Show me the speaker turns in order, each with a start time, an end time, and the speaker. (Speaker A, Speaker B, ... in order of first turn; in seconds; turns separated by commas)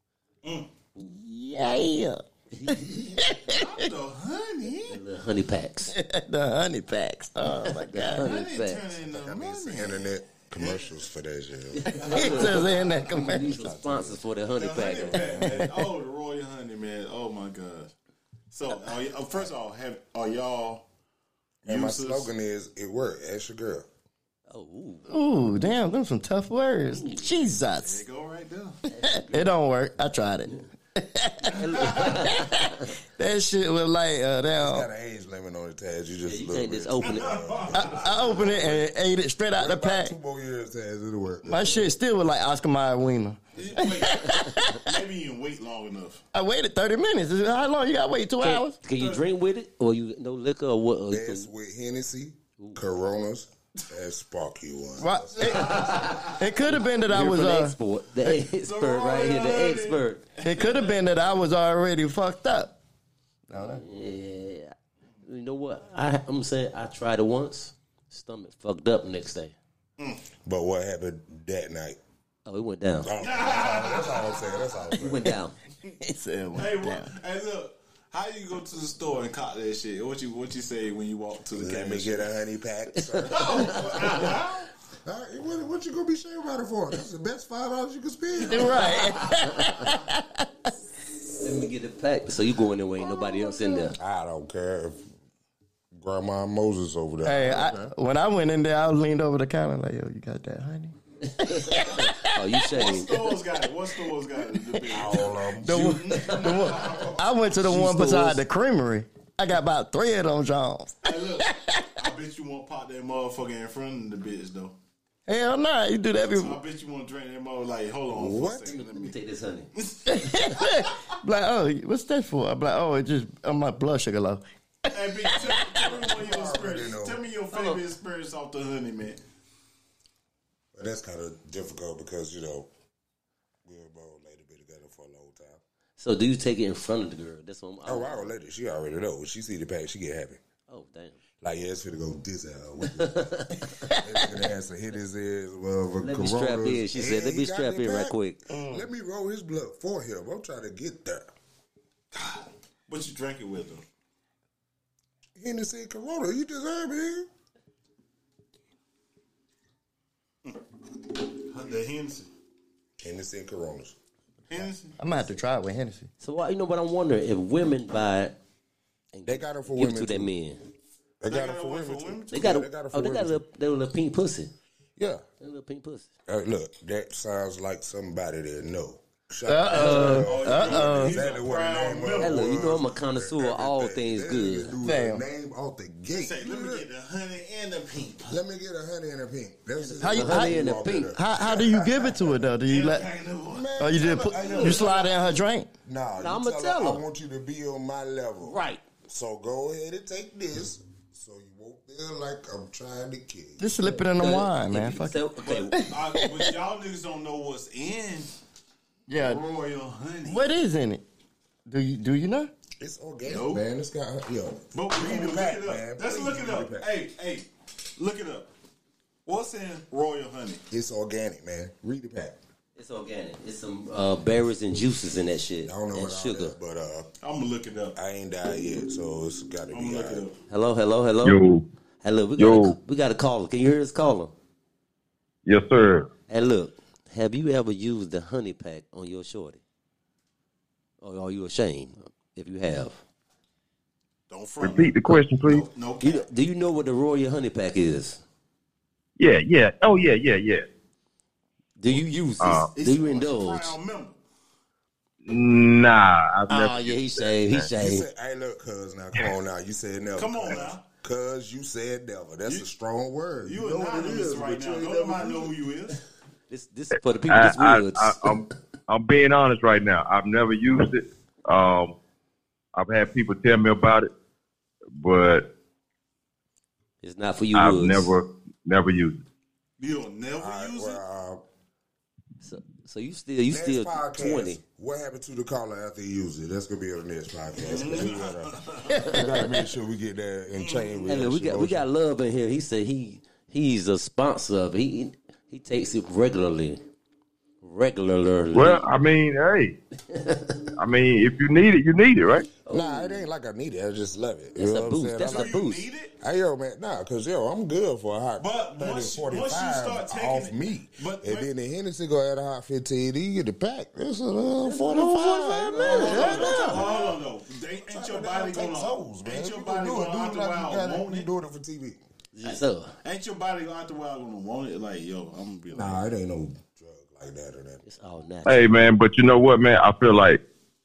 Speaker A: 0.9-3.8, Speaker B: 2.5-3.0, Speaker C: 3.4-5.0, Speaker B: 4.9-5.9, Speaker A: 5.9-8.3, Speaker B: 7.7-8.8, Speaker C: 8.1-11.0, Speaker D: 9.1-12.6, Speaker B: 11.7-15.5, Speaker A: 11.9-13.6, Speaker D: 13.3-14.2, Speaker C: 14.6-17.9, Speaker D: 15.1-15.4, Speaker C: 18.5-20.8, Speaker D: 21.6-23.9, Speaker C: 21.6-22.3, Speaker B: 24.5-25.1, Speaker A: 25.1-28.0, Speaker B: 26.9-27.2, Speaker C: 27.7-28.8, Speaker B: 28.9-29.6, Speaker A: 29.0-34.9, Speaker B: 31.4-32.9, Speaker D: 34.6-38.9, Speaker B: 36.2-37.4, Speaker C: 37.0-38.3, Speaker A: 37.7-40.1, Speaker D: 39.5-41.9, Speaker A: 41.4-44.9, Speaker C: 43.5-46.2, Speaker B: 44.2-44.5, Speaker A: 46.3-48.8, Speaker B: 48.4-51.5, Speaker C: 48.9-49.2, Speaker D: 51.1-55.7, Speaker A: 55.0-57.8, Speaker C: 55.4-56.4, Speaker B: 55.7-60.2, Speaker C: 58.5-61.0, Speaker A: 60.4-62.8, Speaker A: 63.5-63.8, Speaker B: 63.6-64.7, Speaker B: 65.2-69.5, Speaker D: 70.4-72.0, Speaker B: 72.5-73.1, Speaker D: 73.0-75.3, Speaker C: 73.2-74.8, Speaker B: 75.0-75.5, Speaker A: 75.9-77.1, Speaker C: 76.5-82.3, Speaker D: 81.5-84.4, Speaker B: 83.0-83.8, Speaker C: 83.3-84.7, Speaker D: 85.0-89.0, Speaker C: 88.3-89.1, Speaker A: 88.4-90.7, Speaker B: 91.4-94.0, Speaker D: 94.0-95.0, Speaker D: 96.0-97.9, Speaker A: 97.2-102.5, Speaker B: 101.5-103.1, Speaker C: 102.7-107.2, Speaker A: 104.4-105.0, Speaker D: 104.9-105.8, Speaker A: 105.6-112.0, Speaker B: 107.6-108.4, Speaker C: 111.0-114.7, Speaker A: 115.2-116.6, Speaker C: 116.3-119.1, Speaker D: 118.1-118.7, Speaker B: 118.6-119.7, Speaker C: 119.7-120.9, Speaker A: 120.1-126.0, Speaker C: 124.9-129.2, Speaker D: 126.0-127.2, Speaker B: 127.5-127.8, Speaker D: 130.7-132.7, Speaker D: 133.7-135.6, Speaker B: 136.0-138.3, Speaker D: 137.8-140.4, Speaker B: 140.7-141.2, Speaker D: 141.4-151.3, Speaker B: 143.0-143.9, Speaker B: 146.0-148.4, Speaker A: 148.5-148.9, Speaker C: 152.1-153.8, Speaker D: 155.4-157.3, Speaker C: 161.1-162.3, Speaker D: 163.0-163.9, Speaker C: 164.5-165.0, Speaker A: 165.0-166.1, Speaker B: 166.2-168.3, Speaker B: 169.1-170.6, Speaker D: 169.2-170.3, Speaker D: 171.2-173.4, Speaker C: 171.3-172.5, Speaker B: 172.3-174.5, Speaker D: 175.0-175.2, Speaker B: 175.4-176.1, Speaker D: 176.3-186.8, Speaker A: 179.4-181.2, Speaker B: 179.7-180.3, Speaker C: 179.7-182.5, Speaker B: 182.2-184.7, Speaker A: 184.8-185.2, Speaker C: 186.1-188.4, Speaker D: 188.3-192.4, Speaker B: 189.8-191.1, Speaker A: 190.0-193.1, Speaker C: 192.7-195.1, Speaker D: 193.5-195.1, Speaker A: 193.8-195.7, Speaker D: 195.8-198.6, Speaker B: 196.2-197.0, Speaker B: 198.4-198.8, Speaker D: 199.1-203.8, Speaker A: 203.6-206.5, Speaker B: 204.1-205.8, Speaker C: 205.4-208.3, Speaker A: 209.1-209.4, Speaker C: 209.1-210.5, Speaker A: 210.2-211.0, Speaker A: 211.7-212.5, Speaker D: 212.8-216.9, Speaker C: 213.2-213.6, Speaker C: 214.7-218.5, Speaker C: 219.2-220.6, Speaker D: 220.7-222.4, Speaker B: 222.8-226.5, Speaker D: 225.6-227.1, Speaker C: 227.2-228.0, Speaker D: 227.9-230.2, Speaker C: 229.7-230.3, Speaker B: 230.5-231.4, Speaker E: 231.2-231.6, Speaker B: 232.0-234.3, Speaker E: 232.4-232.7, Speaker E: 235.4-236.1, Speaker B: 236.3-239.6, Speaker B: 241.0-243.0, Speaker C: 244.3-246.2, Speaker E: 244.6-245.7, Speaker B: 246.0-248.2, Speaker E: 249.2-250.7, Speaker B: 251.8-253.8, Speaker E: 252.4-252.7, Speaker C: 252.7-254.2, Speaker E: 255.2-257.6, Speaker B: 256.5-258.1, Speaker D: 257.7-265.5, Speaker C: 260.1-260.8, Speaker C: 263.4-266.0, Speaker B: 266.5-268.4, Speaker E: 267.3-271.9, Speaker E: 272.7-274.1, Speaker E: 275.0-275.4, Speaker B: 277.0-278.1, Speaker E: 277.5-279.2, Speaker C: 279.8-281.0, Speaker D: 280.4-281.4, Speaker B: 282.4-284.6, Speaker D: 283.5-291.9, Speaker C: 287.6-289.1, Speaker C: 290.5-291.1, Speaker B: 291.1-296.8, Speaker B: 297.6-298.8, Speaker E: 298.5-299.7, Speaker B: 300.1-300.6, Speaker E: 300.8-302.5, Speaker B: 302.6-303.2, Speaker D: 302.7-317.1, Speaker B: 304.6-305.5, Speaker C: 305.2-306.1, Speaker C: 308.4-311.5, Speaker B: 314.7-316.8, Speaker C: 315.7-321.3, Speaker D: 317.9-322.0, Speaker B: 322.3-322.9, Speaker C: 322.4-326.0, Speaker D: 325.7-327.8, Speaker B: 327.8-328.7, Speaker E: 328.4-330.4